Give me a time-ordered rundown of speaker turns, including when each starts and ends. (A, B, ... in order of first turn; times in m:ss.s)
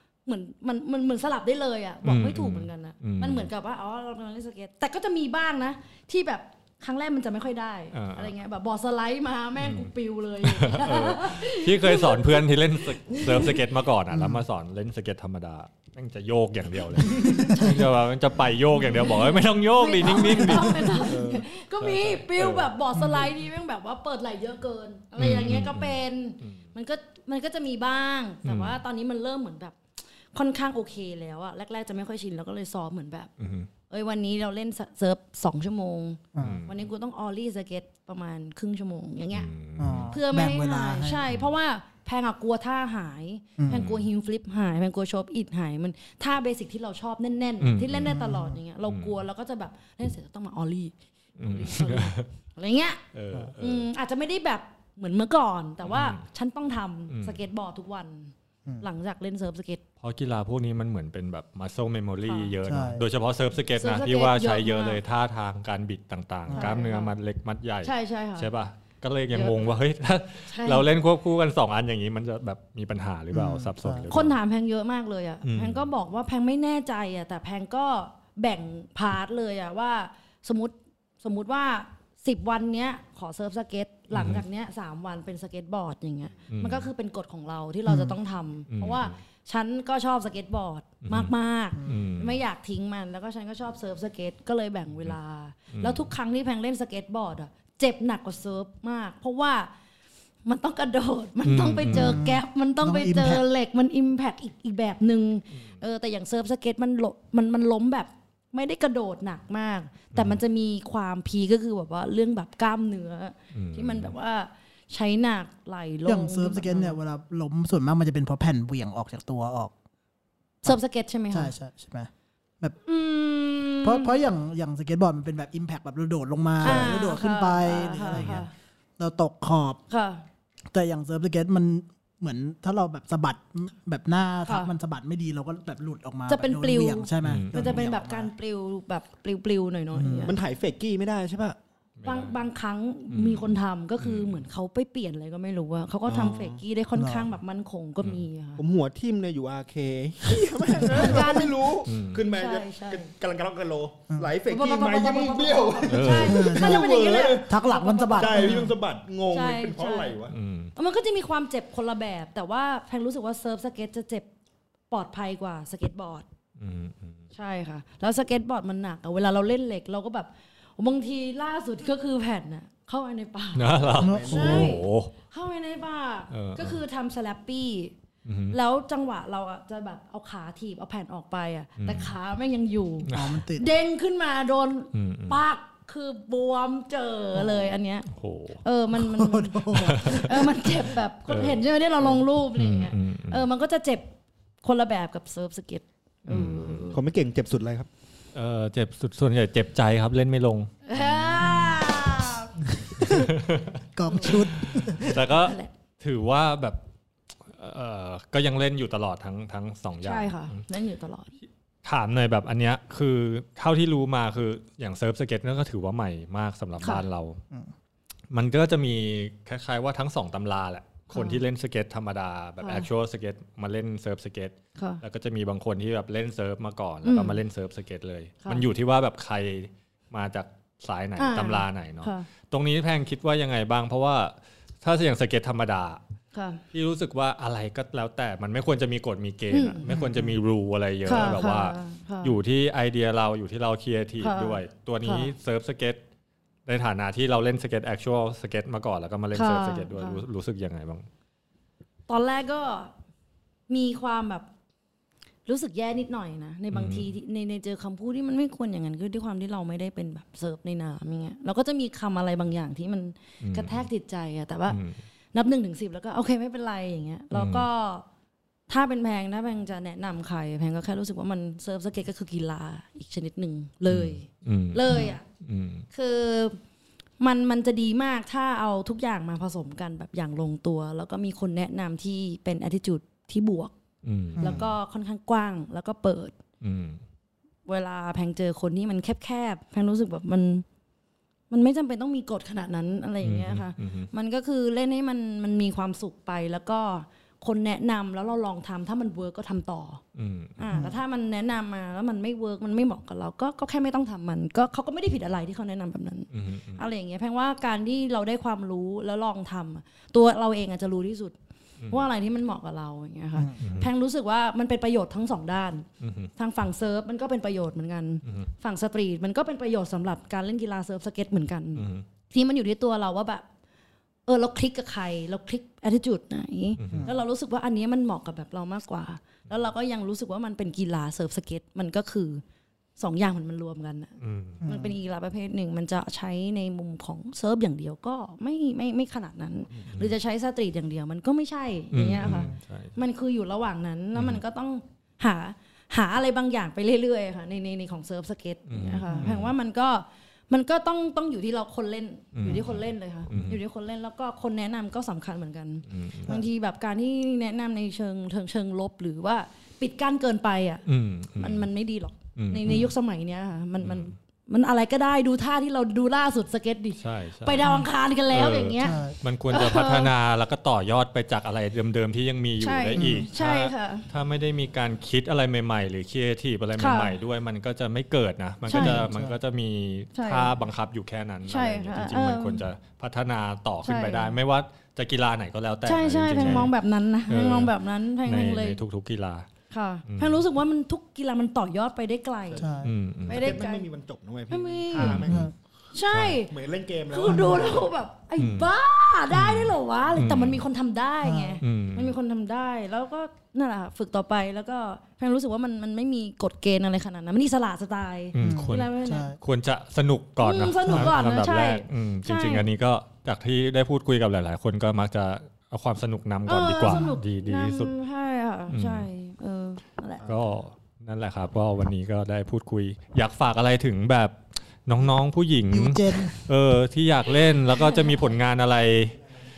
0:00.3-0:13.6 A
0:02.0-0:03.5 B
0:07.9-0:08.3 B
0:09.6-0:09.9 B
0:10.4-0:22.7 B
0:14.1-0:14.4 C
0:17.2-0:17.8 A
0:18.8-0:29.8 A
0:23.0-0:23.2 C
0:25.2-0:26.6 B
0:28.4-0:28.8 B
0:30.3-0:33.3 A
0:33.4-0:33.7 B
0:33.9-0:39.5 A
0:36.4-0:36.6 C
0:36.4-0:36.8 B
0:39.3-0:40.2 B
0:39.8-0:41.2 C
0:40.1-0:53.0 A
0:43.6-0:43.9 C
0:43.7-0:44.0 B
0:47.6-0:48.2 B
0:48.0-0:48.6 C
0:48.9-0:49.2 B
0:51.4-0:52.3 B
0:53.1-0:53.9 B
0:53.6-0:59.8 A
0:55.9-0:56.2 B
0:57.1-0:57.4 B
1:00.0-1:14.4 B
1:02.2-1:02.5 A
1:02.6-1:03.0 C
1:03.8-1:05.0 A
1:06.5-1:06.8 C
1:06.5-1:07.1 A
1:07.8-1:08.5 A
1:09.3-1:09.7 A
1:10.5-1:10.9 A
1:13.3-1:14.1 C
1:14.1-1:39.7 A
1:15.4-1:15.9 B
1:24.1-1:24.4 B
1:26.5-1:26.9 B
1:27.9-1:28.2 C
1:28.7-1:29.2 B
1:31.0-1:32.4 B
1:31.8-1:32.0 C
1:35.7-1:36.1 B
1:40.4-1:57.0 A
1:41.4-1:42.2 B
1:41.9-1:43.4 C
1:50.1-1:50.4 B
1:53.5-1:54.1 B
1:56.1-1:59.7 C
2:00.6-2:01.5 A
2:01.3-2:02.8 C
2:02.8-2:04.2 A
2:03.8-2:08.5 C
2:06.6-2:08.5 A
2:08.1-2:08.4 B
2:09.0-2:09.8 C
2:09.9-2:10.2 A
2:10.7-2:18.3 C
2:14.5-2:14.7 A
2:16.3-2:20.4 A
2:17.2-2:17.8 B
2:19.9-2:20.3 C
2:20.2-2:21.6 D
2:22.0-2:22.4 B
2:22.0-2:28.6 A
2:23.1-2:24.4 B
2:26.1-2:26.6 D
2:27.0-2:27.3 C
2:28.6-2:37.6 D
2:30.9-2:31.6 A
2:31.9-2:32.2 B
2:32.3-2:33.1 A
2:34.5-2:38.7 A
2:35.9-2:36.5 B
2:36.1-2:36.9 C
2:37.4-2:38.7 C
2:38.1-2:40.4 D
2:39.3-2:40.2 A
2:40.3-2:40.7 B
2:40.8-2:44.3 A
2:44.9-2:46.3 A
2:46.6-2:47.2 B
2:47.3-2:58.0 A
2:53.6-2:55.1 B
2:54.0-2:54.8 C
2:54.0-2:54.8 D
2:56.3-2:56.8 B
2:58.2-2:58.6 B
2:58.5-3:08.1 A
3:01.8-3:02.1 B
3:03.1-3:03.4 B
3:03.1-3:03.7 C
3:04.9-3:05.4 B
3:08.1-3:08.6 B
3:08.6-3:14.1 A
3:09.0-3:10.3 C
3:09.8-3:10.4 B
3:11.3-3:11.6 B
3:12.6-3:13.4 B
3:14.6-3:17.0 A
3:16.3-3:16.9 B
3:16.9-3:17.9 D
3:18.3-3:21.5 B
3:20.9-3:22.7 A
3:21.4-3:21.9 C
3:22.8-3:23.3 C
3:23.0-3:26.8 B
3:24.0-3:25.2 C
3:24.1-3:24.4 A
3:25.0-3:25.7 A
3:27.5-3:30.6 B
3:30.0-3:31.3 A
3:31.8-3:37.4 B
3:38.3-3:56.0 B
3:41.1-3:41.4 A
3:42.6-3:42.9 A
3:47.0-3:47.4 A
3:51.2-3:52.3 A
3:56.3-3:56.6 A
3:56.7-4:06.0 B
3:59.5-3:59.9 A
3:59.9-4:00.3 C
4:01.0-4:02.4 A
4:04.2-4:05.3 A
4:06.7-4:11.1 B
4:09.3-4:10.2 A
4:12.1-4:12.9 A
4:13.7-4:14.5 A
4:15.5-4:24.8 A
4:16.7-4:17.1 B
4:23.4-4:23.9 B
4:24.7-4:25.0 B
4:25.3-4:28.0 A
4:27.3-4:27.7 B
4:28.7-4:35.2 A
4:33.9-4:35.9 B
4:34.9-4:35.2 C
4:35.9-4:36.6 A
4:37.2-4:43.7 A
4:44.0-4:44.7 B
4:44.4-4:44.7 C
4:44.4-4:46.4 A
4:46.6-4:47.0 B
4:47.7-4:50.6 A
4:51.5-5:00.0 A
4:53.2-4:54.1 B
5:00.2-5:00.6 B
5:00.6-5:11.4 A
5:06.3-5:06.8 B
5:11.8-5:12.1 B
5:11.9-5:23.4 A
5:13.6-5:13.9 B
5:16.0-5:16.3 B
5:21.8-5:22.0 B
5:24.3-5:32.4 A
5:26.8-5:27.1 B
5:26.9-5:27.1 C
5:33.0-6:00.8 A
5:34.2-5:34.6 B
5:34.6-5:35.0 C
5:41.9-5:43.0 B
5:44.2-5:44.4 B
5:48.7-5:49.5 B
5:49.1-5:49.3 C
5:52.4-5:53.6 B
5:55.9-5:56.4 B
6:00.9-6:01.7 B
6:01.4-6:10.1 A
6:02.4-6:02.9 B
6:03.8-6:04.1 B
6:07.0-6:07.7 B
6:07.6-6:07.9 C
6:08.3-6:26.7 B
6:08.8-6:09.1 C
6:12.6-6:14.1 A
6:13.0-6:13.3 C
6:16.8-6:17.1 A
6:18.7-6:19.0 A
6:18.7-6:19.4 C
6:20.2-6:20.6 A
6:21.5-6:22.6 A
6:23.8-6:24.4 A
6:25.8-6:28.8 A
6:27.3-6:27.7 B
6:28.2-6:29.5 B
6:29.7-6:33.9 A
6:30.1-6:30.4 B
6:32.5-6:35.5 D
6:32.6-6:32.9 C
6:32.8-6:33.6 B
6:34.5-6:35.2 A
6:35.0-6:35.4 B
6:35.3-6:35.5 C
6:35.9-6:36.5 A
6:36.1-6:36.4 B
6:36.5-6:37.9 D
6:37.1-6:49.3 A
6:37.3-6:37.7 C
6:38.4-6:38.7 B
6:39.3-6:40.6 B
6:41.2-6:41.6 C
6:41.6-6:42.1 B
6:48.3-6:57.9 B
6:48.4-6:49.4 C
6:50.4-6:52.7 A
6:56.5-7:00.3 A
6:56.9-6:57.2 C
6:58.7-6:59.1 B
7:00.2-7:00.5 D
7:00.2-7:09.2 B
7:05.7-7:06.3 C
7:07.7-7:08.3 A